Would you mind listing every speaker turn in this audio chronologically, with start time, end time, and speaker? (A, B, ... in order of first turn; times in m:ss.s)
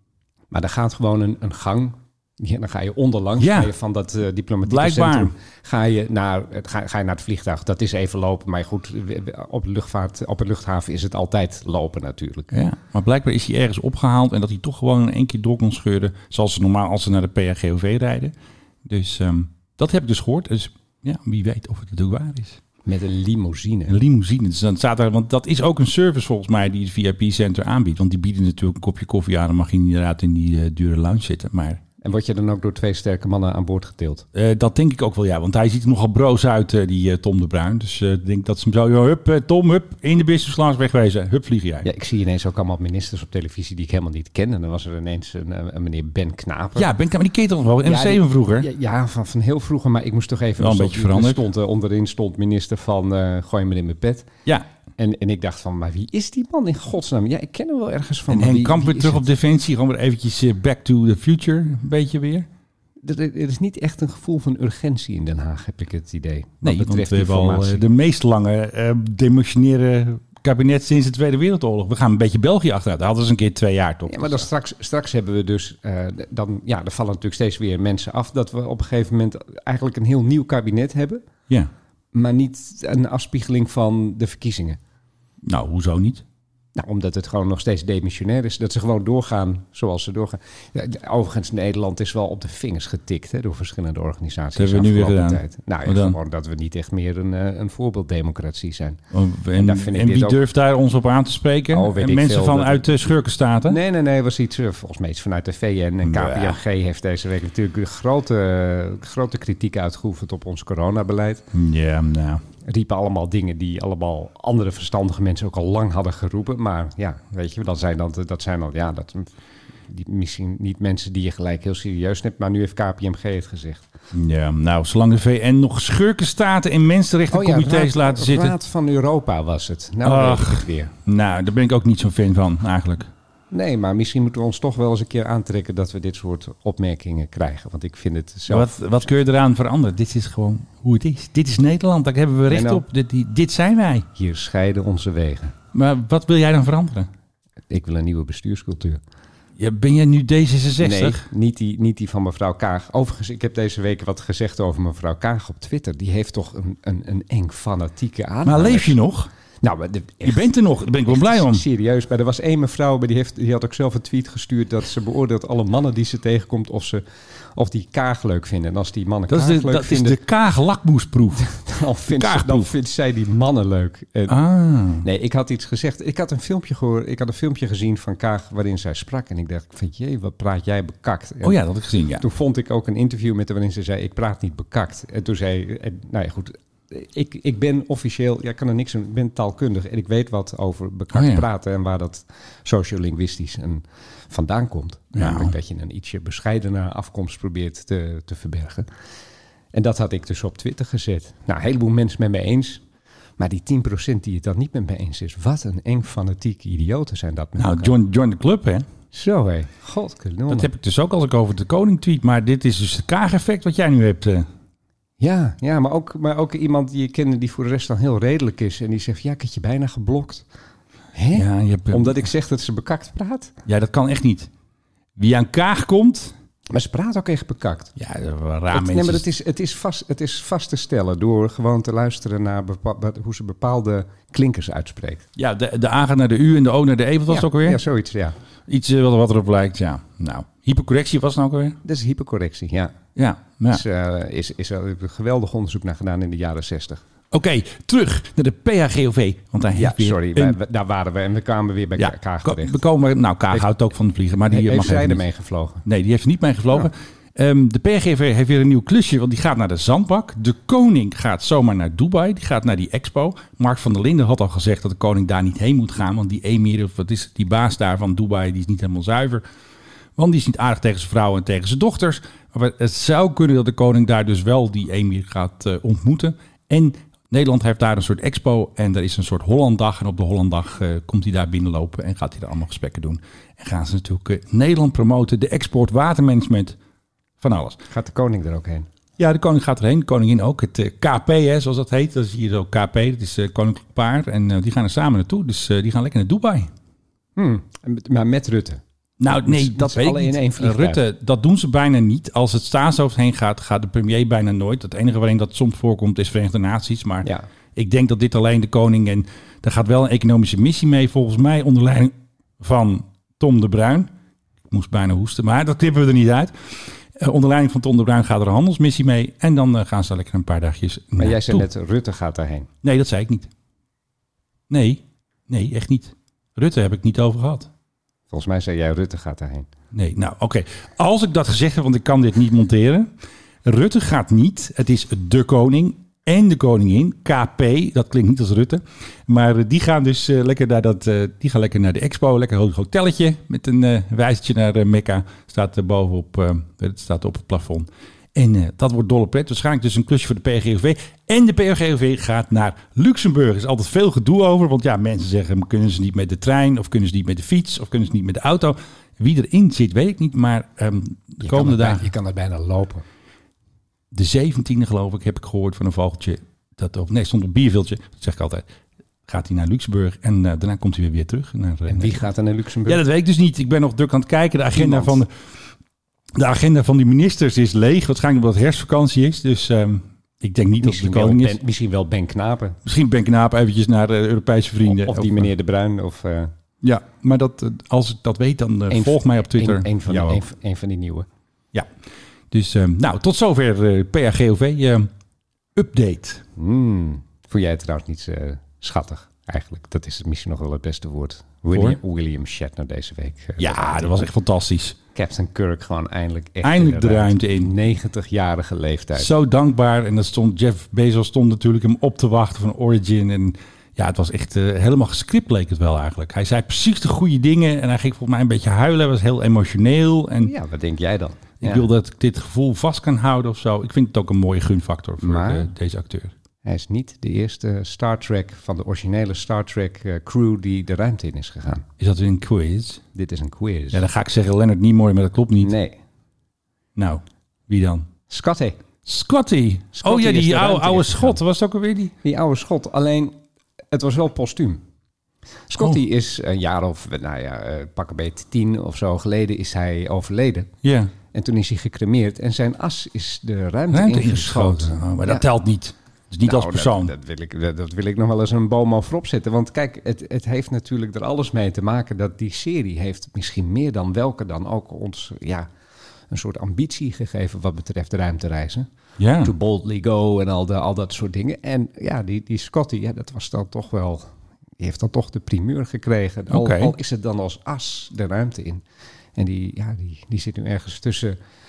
0:00.5-0:12.5 A
0:03.4-0:03.7 B
0:04.6-0:05.3 B
0:12.5-0:18.3 B
0:18.8-0:22.6 B
0:22.8-0:24.0 A
0:23.9-0:31.8 B
0:32.0-0:34.2 A
0:34.3-0:41.9 B
0:41.8-0:46.9 A
0:46.8-0:48.7 B
0:47.8-0:54.3 A
0:50.6-0:51.4 B
0:55.0-0:59.2 A
0:58.3-1:02.5 B
1:03.0-1:07.8 A
1:06.6-1:14.5 B
1:14.1-1:21.2 A
1:22.1-1:24.8 A
1:25.4-1:26.2 B
1:26.7-1:39.0 A
1:34.6-1:36.2 B
1:39.1-1:43.8 B
1:39.5-1:40.4 A
1:41.7-1:42.9 A
1:43.7-1:51.4 A
1:46.0-1:46.6 B
1:51.5-1:52.4 B
1:52.6-1:59.3 A
1:59.8-2:03.8 A
2:04.1-2:08.5 B
2:07.3-2:10.9 A
2:10.0-2:13.1 B
2:13.5-2:18.8 A
2:18.5-2:24.1 B
2:22.5-2:22.8 A
2:24.1-2:25.6 A
2:25.7-2:27.1 B
2:27.7-2:29.0 A
2:29.6-2:31.2 B
2:30.8-2:39.0 A
2:38.4-2:39.3 B
2:39.6-2:40.5 A
2:40.2-2:41.6 B
2:41.0-2:47.0 A
2:47.5-2:50.2 A
2:49.3-2:51.5 B
2:51.4-2:54.4 A
2:52.1-2:52.7 B
2:54.3-2:55.0 B
2:55.0-3:01.6 A
3:01.4-3:02.2 B
3:02.2-3:18.9 A
3:11.1-3:11.4 B
3:15.1-3:15.5 B
3:19.7-3:22.8 A
3:23.4-3:28.0 A
3:27.6-3:28.8 B
3:29.1-3:30.7 A
3:30.5-3:34.4 B
3:35.2-3:40.4 A
3:41.1-3:43.5 A
3:41.3-3:42.2 B
3:43.6-3:44.5 B
3:45.2-3:46.3 B
3:46.7-3:47.9 A
3:48.0-3:49.2 B
3:48.7-3:55.2 A
3:55.4-3:57.8 B
3:57.3-3:58.4 A
3:58.7-4:01.8 B
4:01.8-4:02.9 A
4:03.2-4:03.8 B
4:03.7-4:07.0 A
4:07.3-4:10.6 B
4:09.7-4:12.8 A
4:12.0-4:15.2 B
4:14.5-4:15.8 A
4:15.8-4:29.4 B
4:30.2-4:46.8 B
4:47.4-4:47.8 B
4:47.9-4:48.9 A
4:49.2-4:56.7 B
4:57.4-4:58.8 A
4:59.2-5:14.1 B
4:59.4-5:01.0 A
5:14.7-5:21.7 B
5:21.2-5:22.7 A
5:22.8-5:23.5 B
5:24.7-5:27.7 B
5:28.3-5:29.7 A
5:29.9-5:33.1 B
5:33.6-6:02.1 B
6:01.4-6:03.0 A
6:04.1-6:08.6 B
6:09.3-6:12.2 B
6:11.9-6:13.0 A
6:12.8-6:15.3 B
6:14.7-6:15.2 A
6:16.3-6:21.6 B
6:20.8-6:22.8 A
6:22.8-6:25.5 B
6:24.8-6:26.5 A
6:26.8-6:30.4 B
6:28.9-6:31.3 A
6:32.5-6:35.1 B
6:35.8-6:36.4 B
6:36.6-6:44.3 A
6:41.7-6:42.0 B
6:43.6-6:45.0 B
6:45.1-6:49.3 A
6:46.6-6:47.7 B
6:49.2-7:00.5 B
7:00.4-7:01.8 A
7:01.6-7:06.3 B
7:05.2-7:05.7 A
7:06.6-7:11.8 A
7:12.0-7:13.0 B
7:13.1-7:14.0 A
7:13.9-7:15.7 B
7:15.6-7:16.0 A
7:17.0-7:18.1 B
7:18.3-7:18.8 A
7:19.0-7:22.1 B
7:19.9-7:21.4 A
7:22.2-7:23.4 A
7:23.9-7:24.8 A
7:25.7-7:30.7 A
7:30.8-7:31.1 B
7:31.3-7:35.5 A
7:33.9-7:37.1 B
7:36.4-7:45.7 A
7:46.3-7:48.9 A
7:49.2-7:49.5 B
7:49.4-7:58.8 A
7:56.5-7:56.9 B
7:59.4-8:01.4 A